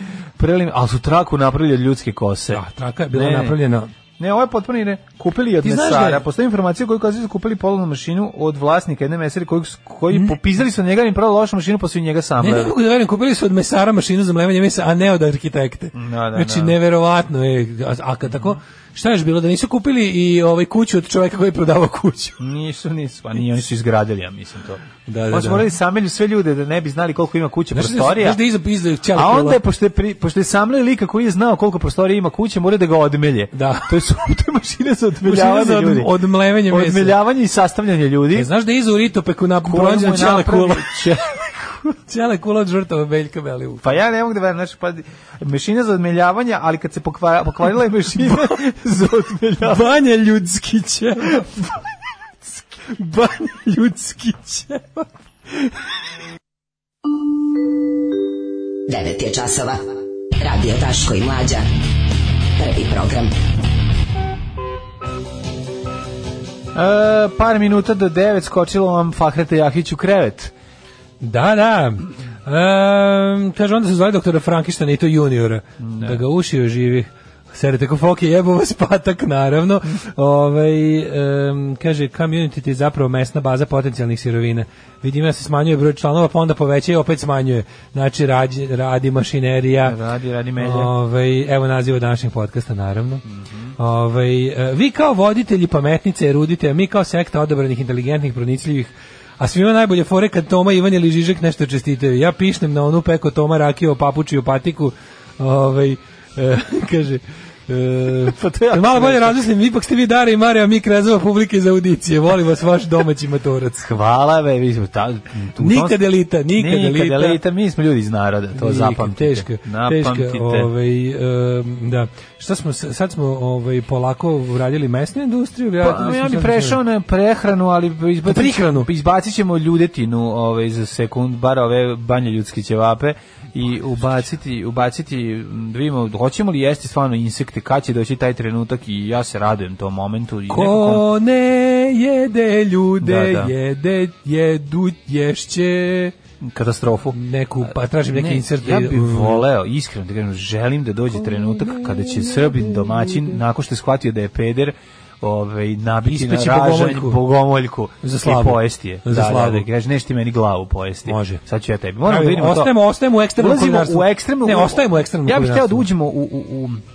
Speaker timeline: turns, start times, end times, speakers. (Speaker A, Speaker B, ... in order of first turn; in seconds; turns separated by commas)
Speaker A: 0.4-3.6, Speaker B: 2.5-3.9, Speaker A: 4.2-12.7, Speaker B: 5.6-6.2, Speaker B: 12.4-22.4, Speaker A: 15.9-16.8, Speaker A: 22.4-28.4, Speaker B: 25.1-25.7, Speaker B: 27.7-29.6, Speaker A: 29.1-36.1, Speaker B: 33.5-33.9, Speaker B: 35.2-37.2, Speaker A: 36.7-38.5, Speaker B: 38.3-41.2, Speaker A: 39.6-41.9, Speaker B: 42.0-43.8, Speaker A: 43.8-49.9, Speaker B: 48.2-48.6, Speaker B: 49.6-51.5, Speaker B: 52.9-55.7, Speaker C: 58.9-59.8, Speaker C: 60.4-61.6, Speaker C: 62.6-63.3, Speaker A: 66.7-70.5, Speaker B: 71.2-90.0, Speaker A: 75.8-76.2, Speaker A: 89.8-90.9, Speaker B: 90.6-93.2, Speaker A: 93.3-93.7, Speaker B: 93.8-113.9, Speaker A: 108.2-109.4, Speaker A: 113.8-120.7, Speaker B: 115.6-117.4, Speaker B: 118.5-126.8, Speaker A: 125.8-141.0, Speaker B: 128.2-128.9, Speaker B: 140.5-146.1, Speaker A: 143.0-143.5, Speaker A: 146.4-162.8, Speaker B: 147.1-149.4, Speaker B: 151.1-153.4, Speaker B: 156.0-157.2, Speaker B: 158.0-159.7, Speaker B: 161.1-161.4, Speaker B: 162.0-165.9, Speaker A: 163.3-166.8